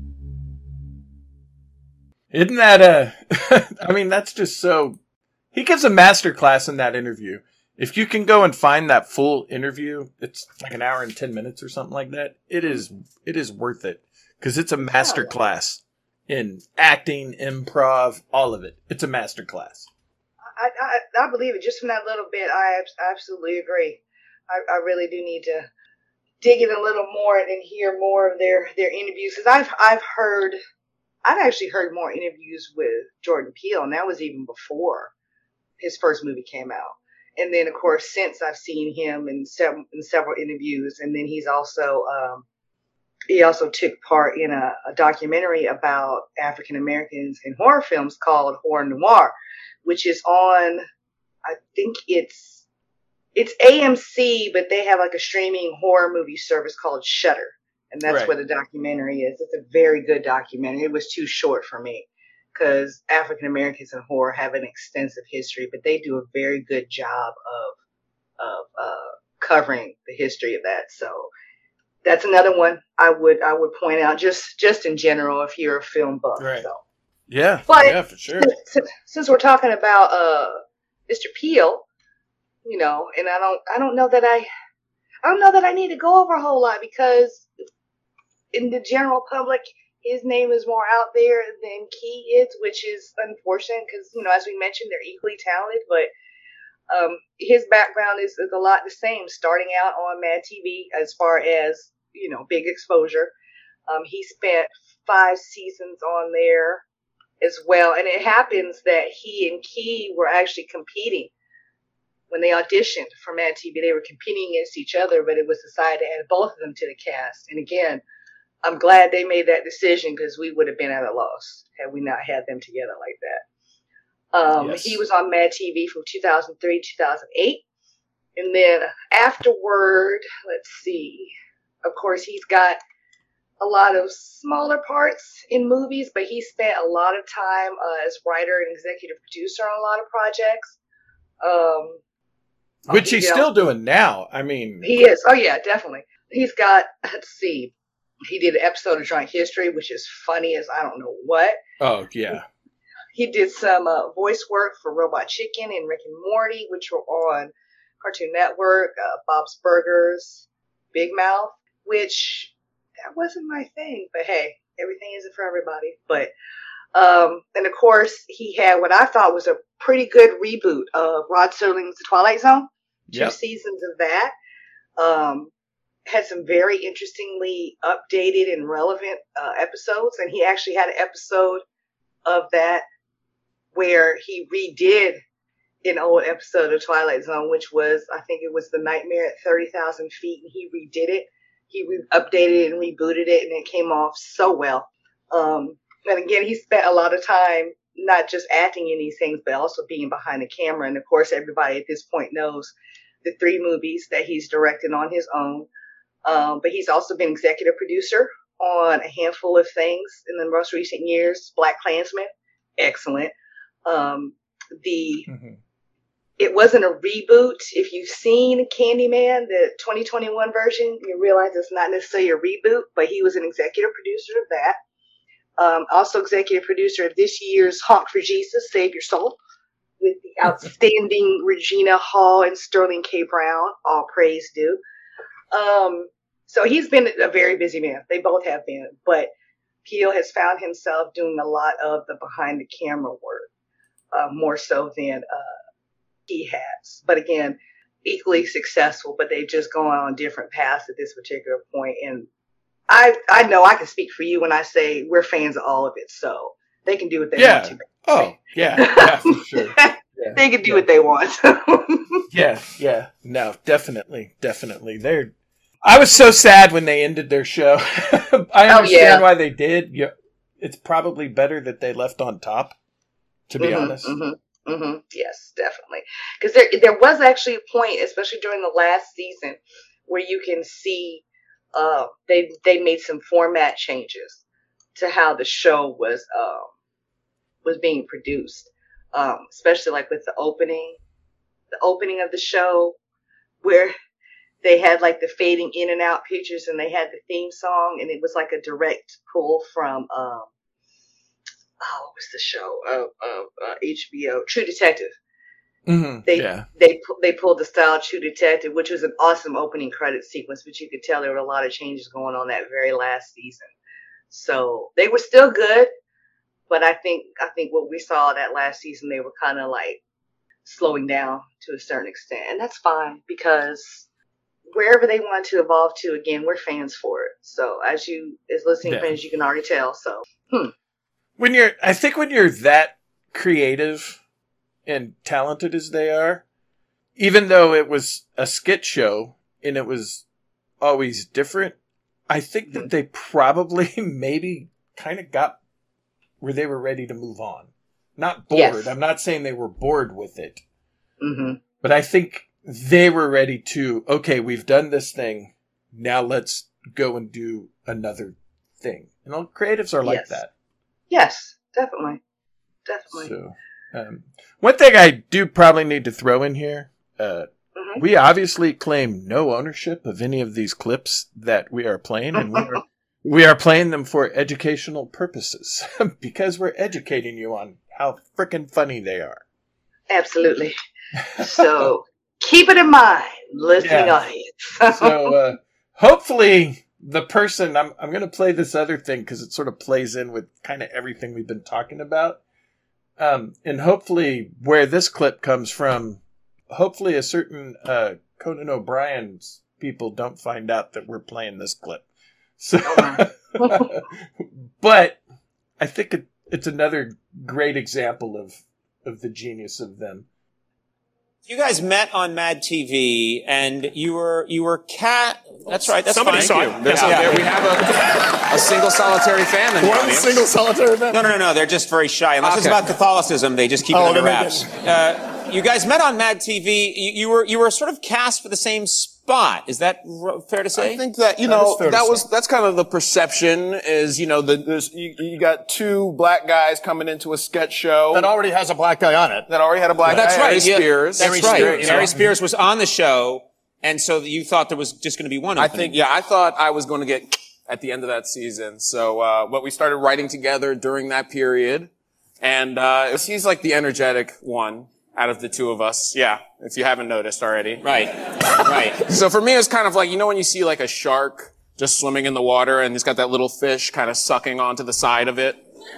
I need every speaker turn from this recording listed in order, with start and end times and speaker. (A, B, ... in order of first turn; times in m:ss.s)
0:02.3-0:05.0 A
0:05.5-0:19.9 A
0:14.9-0:15.4 B
0:20.6-0:25.7 B
0:26.4-0:30.6 B
0:31.2-0:35.1 B
0:35.8-0:42.4 B
0:43.3-0:50.8 B
0:51.5-0:52.6 B
0:53.4-1:07.7 B
0:58.1-0:58.3 A
1:08.4-1:11.3 B
1:12.0-1:16.8 B
1:16.4-1:16.7 A
1:17.3-1:18.5 A
1:17.7-1:21.8 B
1:22.6-1:24.5 B
1:25.2-1:27.5 B
1:28.5-1:36.1 B
1:36.9-1:43.3 B
1:43.9-1:46.8 B
1:47.4-1:51.3 B
1:52.3-1:58.0 B
1:58.6-2:03.4 B
2:04.3-2:07.6 B
2:04.6-2:05.0 A
2:08.4-2:11.3 B
2:11.8-2:12.8 B
2:13.6-2:20.8 B
2:21.4-2:22.0 B
2:22.9-2:23.5 B
2:22.9-2:24.9 A
2:24.8-2:27.7 B
2:28.3-2:31.6 B
2:31.8-2:32.4 A
2:33.2-2:42.5 B
2:43.0-2:46.3 B
2:46.9-2:54.3 B
2:53.1-2:53.4 A
2:55.0-2:55.5 B
2:56.1-3:01.6 B
3:02.3-3:02.8 B
3:03.8-3:05.2 B
3:05.8-3:25.7 B
3:26.2-3:33.3 B
3:33.9-3:35.3 B
3:35.3-3:35.6 A
3:36.4-3:44.8 B
3:45.6-3:49.4 B
3:50.0-3:54.8 B
3:55.5-3:59.3 B
3:59.8-4:03.5 B
4:04.1-4:05.6 B
4:06.3-4:12.3 B
4:12.9-4:22.3 B
4:17.4-4:20.9 A
4:22.3-4:25.3 A
4:25.8-4:32.8 A
4:28.7-4:29.2 B
4:33.5-4:34.2 A
4:33.6-4:44.4 B
4:45.0-4:46.7 B
4:47.6-4:51.0 B
4:51.7-4:53.0 B
4:53.6-4:54.0 B
4:54.6-5:00.5 B
5:01.8-5:05.1 B
5:05.9-5:06.7 A
5:06.3-5:13.7 B
5:14.3-5:15.9 B
5:16.7-5:20.0 B
5:20.6-5:24.1 B
5:24.7-5:30.7 B
5:28.8-5:29.2 A
5:31.4-5:34.2 A
5:34.9-5:36.4 A
5:37.2-5:40.2 A
5:40.8-5:41.8 A
5:42.3-5:45.6 A
5:46.4-5:50.6 A
5:48.5-5:48.9 B
5:51.2-5:51.6 B
5:51.8-6:00.5 A
6:00.0-6:00.4 B
6:01.1-6:02.2 B
6:02.9-6:03.3 B
6:03.1-6:19.4 A
6:07.8-6:08.0 B
6:20.1-6:20.8 B
6:21.2-6:21.8 A
6:21.4-6:25.4 B
6:23.8-6:24.2 A
6:24.9-6:32.4 A
6:33.2-6:42.0 A
6:42.6-6:45.2 A
6:42.8-6:43.9 B
6:45.8-6:50.3 A
6:51.5-6:57.5 C
6:55.7-7:00.4 D
6:56.3-6:57.4 E
6:59.8-7:01.2 E
7:01.1-7:11.0 C
7:02.4-7:03.0 D
7:03.9-7:04.6 E
7:10.7-7:18.3 D
7:11.5-7:12.1 E
7:18.1-7:19.4 E
7:19.5-7:22.3 D
7:20.1-7:26.0 C
7:21.2-7:21.6 E
7:25.6-7:38.0 D
7:37.8-7:39.0 C
7:38.6-7:45.6 D